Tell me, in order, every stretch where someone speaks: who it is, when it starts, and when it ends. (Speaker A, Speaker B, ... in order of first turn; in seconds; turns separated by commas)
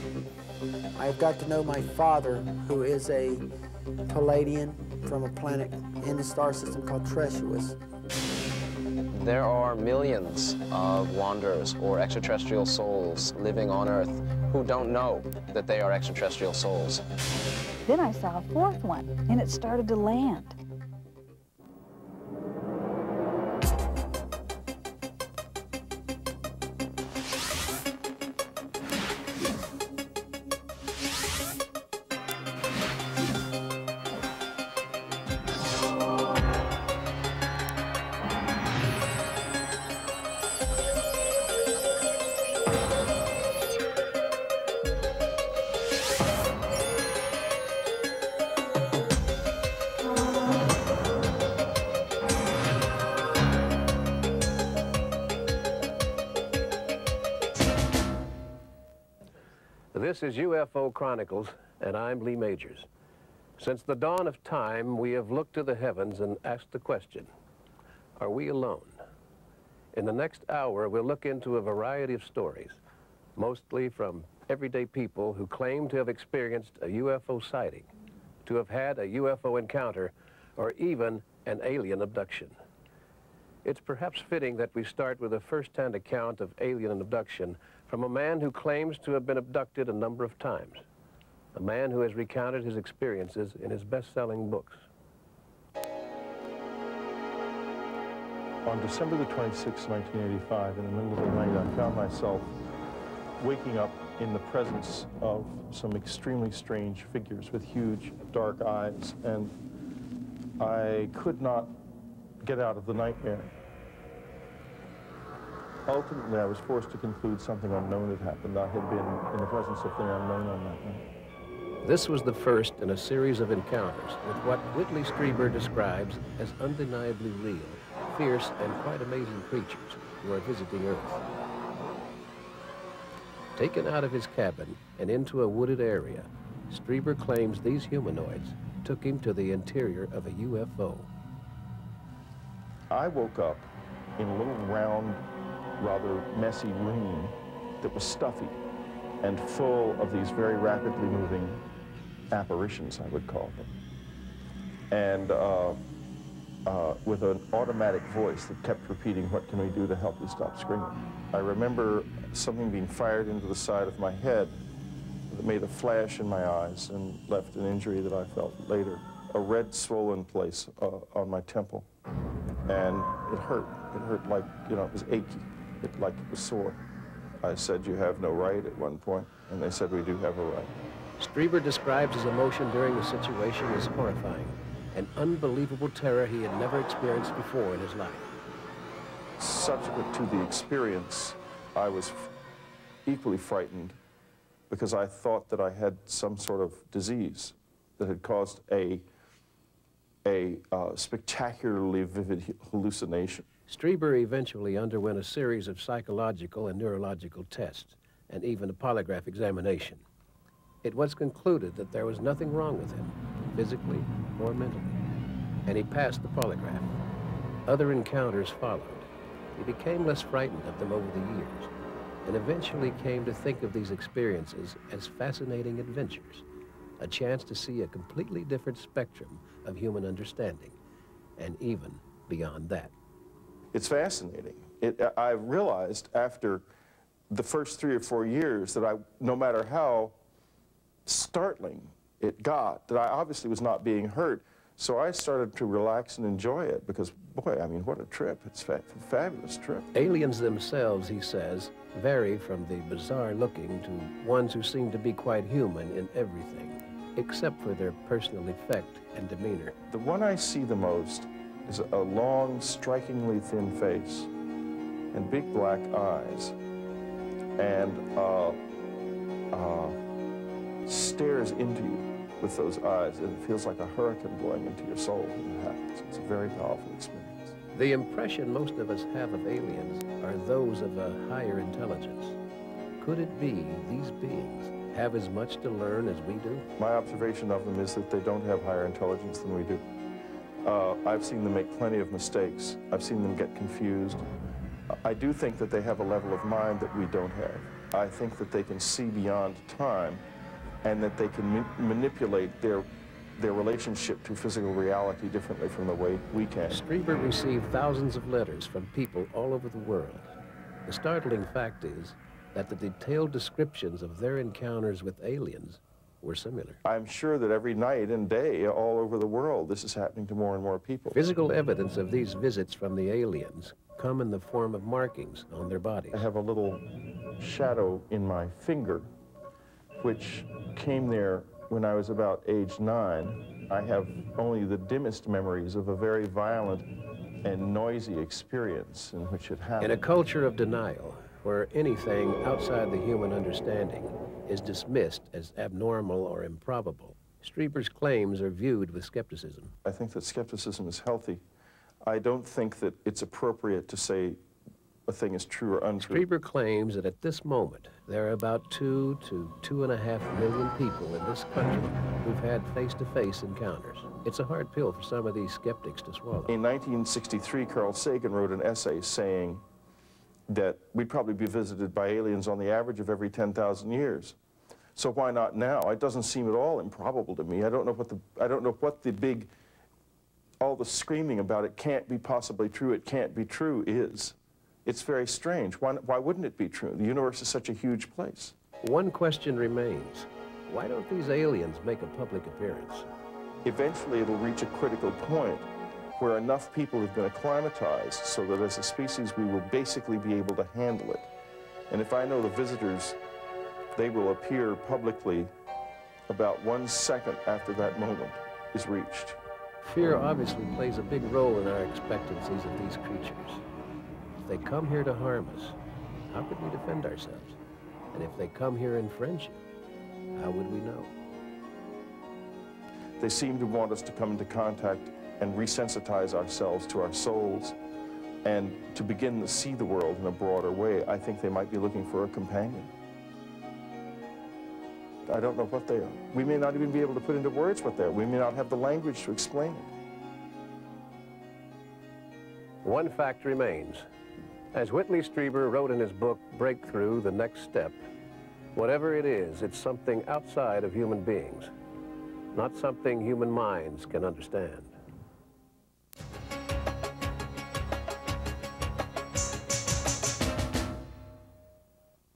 Speaker A: 1.0-3.5, Speaker A: 4.1-7.8, Speaker B: 9.1-17.1, Speaker C: 17.9-20.6, Speaker D: 59.9-62.9, Speaker D: 63.6-67.3, Speaker D: 68.2-69.0, Speaker D: 69.9-72.8, Speaker D: 73.4-77.9, Speaker D: 78.4-82.5, Speaker D: 83.6-90.8, Speaker D: 91.5-94.8, Speaker E: 98.7-102.5, Speaker E: 103.4-109.5, Speaker E: 110.6-111.8, Speaker E: 112.4-113.5, Speaker E: 115.9-121.0, Speaker D: 121.8-131.2, Speaker D: 133.6-141.1, Speaker E: 142.9-145.2, Speaker E: 145.8-148.6, Speaker E: 149.2-151.6, Speaker E: 152.3-153.7, Speaker E: 154.9-155.8, Speaker E: 156.7-164.6, Speaker E: 165.3-171.9, Speaker E: 172.7-176.8, Speaker E: 177.4-180.7, Speaker D: 181.2-188.3, Speaker E: 189.4-192.3, Speaker E: 193.1-194.0, Speaker E: 194.7-199.1, Speaker E: 200.2-203.4, Speaker D: 203.7-210.0, Speaker D: 210.8-215.0, Speaker D: 215.7-216.9, Speaker D: 217.7-221.7, Speaker D: 222.2-226.4, Speaker D: 227.0-230.8, Speaker D: 231.4-232.9, Speaker E: 233.7-236.7, Speaker E: 237.3-240.2, Speaker E: 241.1-249.9, Speaker D: 249.9-259.8, Speaker E: 259.9-264.3, Speaker E: 265.1-266.6, Speaker E: 267.6-268.6, Speaker E: 269.5-270.0, Speaker E: 270.9-277.6, Speaker D: 277.7-282.4, Speaker D: 283.0-286.7, Speaker E: 286.8-289.9, Speaker E: 290.6-294.3, Speaker E: 294.9-300.2, Speaker E: 300.8-302.9, Speaker E: 303.4-306.8, Speaker D: 306.7-310.3, Speaker D: 310.9-316.8, Speaker E: 316.9-321.2, Speaker D: 321.1-326.2, Speaker E: 326.1-326.9, Speaker E: 327.4-329.1, Speaker E: 330.0-336.9, Speaker E: 337.4-340.0, Speaker D: 339.8-349.7, Speaker E: 349.9-351.4, Speaker E: 352.0-354.4, Speaker E: 355.1-356.2, Speaker D: 356.0-366.6, Speaker E: 366.5-369.6, Speaker E: 370.5-374.4, Speaker E: 375.0-379.5, Speaker E: 380.6-388.6, Speaker D: 388.8-393.1, Speaker E: 393.6-401.3, Speaker E: 401.9-403.2, Speaker E: 403.9-405.5, Speaker E: 406.3-409.4, Speaker D: 409.8-413.6, Speaker D: 414.4-415.8, Speaker D: 416.3-417.6, Speaker D: 418.1-419.6, Speaker D: 420.3-421.1, Speaker E: 423.2-427.8, Speaker E: 428.4-432.9, Speaker E: 435.3-439.9, Speaker D: 442.8-444.1, Speaker D: 444.7-448.0, Speaker D: 448.8-451.7, Speaker D: 452.5-455.0